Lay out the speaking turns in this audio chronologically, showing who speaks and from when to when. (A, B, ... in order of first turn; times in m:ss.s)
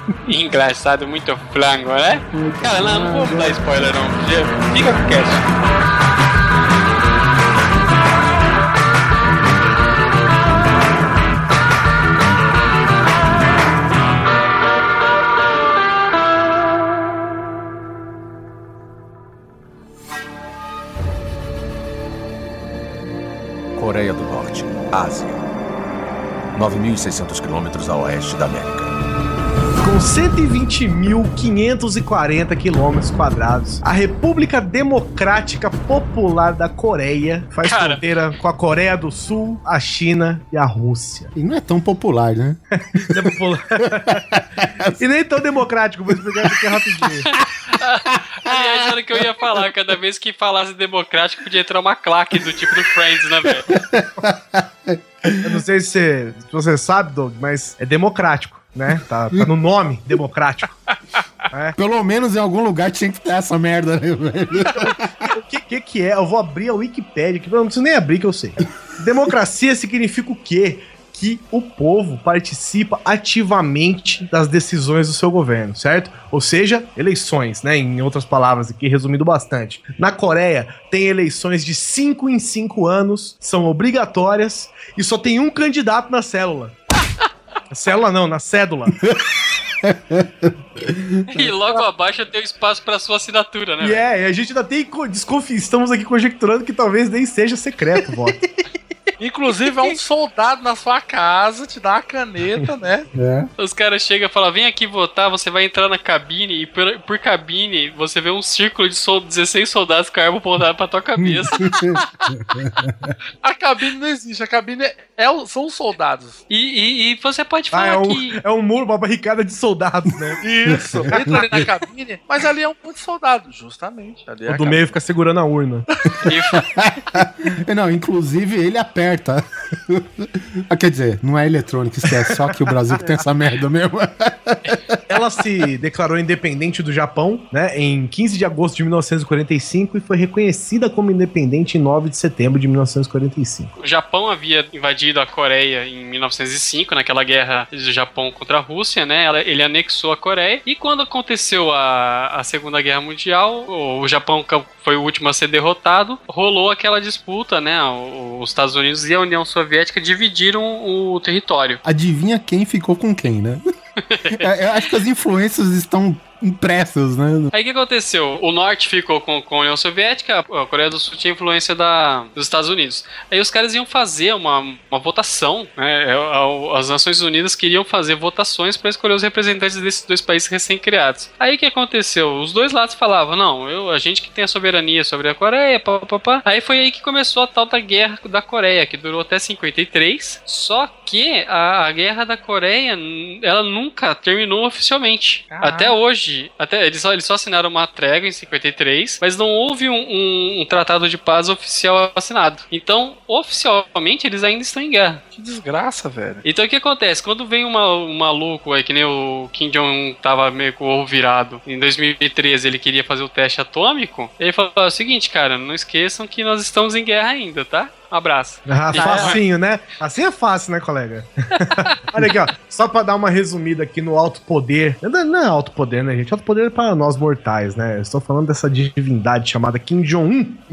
0:00.2-0:05.4 A
0:02.3-0:03.6 B
0:23.8-0:25.4 C
0:26.5-0:28.9 C
0:29.8-0:41.3 D
0:37.6-0:38.0 A
0:41.3-0:43.3 B
0:42.9-0:44.2 D
0:43.9-0:45.0 B
0:45.0-0:47.3 D
0:46.1-0:46.6 B
0:47.7-0:53.7 A
0:48.2-0:49.2 B
0:53.7-0:55.6 B
0:55.4-1:00.8 D
1:01.7-1:05.3 B
1:04.7-1:26.8 D
1:27.7-1:29.0 D
1:29.0-1:31.5 B
1:31.3-1:34.0 A
1:33.8-1:38.4 D
1:39.2-1:43.1 E
1:43.1-1:43.5 B
1:43.6-1:51.8 A
1:51.2-1:52.0 B
1:52.5-1:53.1 B
1:53.4-1:56.4 E
1:56.5-1:58.4 A
1:57.7-2:00.4 D
2:00.4-2:05.0 E
2:00.7-2:01.4 B
2:04.5-2:05.8 D
2:06.2-2:06.6 A
2:06.5-2:15.0 B
2:15.1-2:23.7 D
2:23.8-2:41.8 A
2:41.8-2:43.6 B
2:44.1-2:44.5 A
2:44.4-2:47.5 B
2:47.5-3:25.2 A
3:15.5-3:16.0 E
3:25.3-3:26.4 E
3:26.4-3:39.4 A
3:38.7-3:50.6 D
3:38.9-3:39.4 E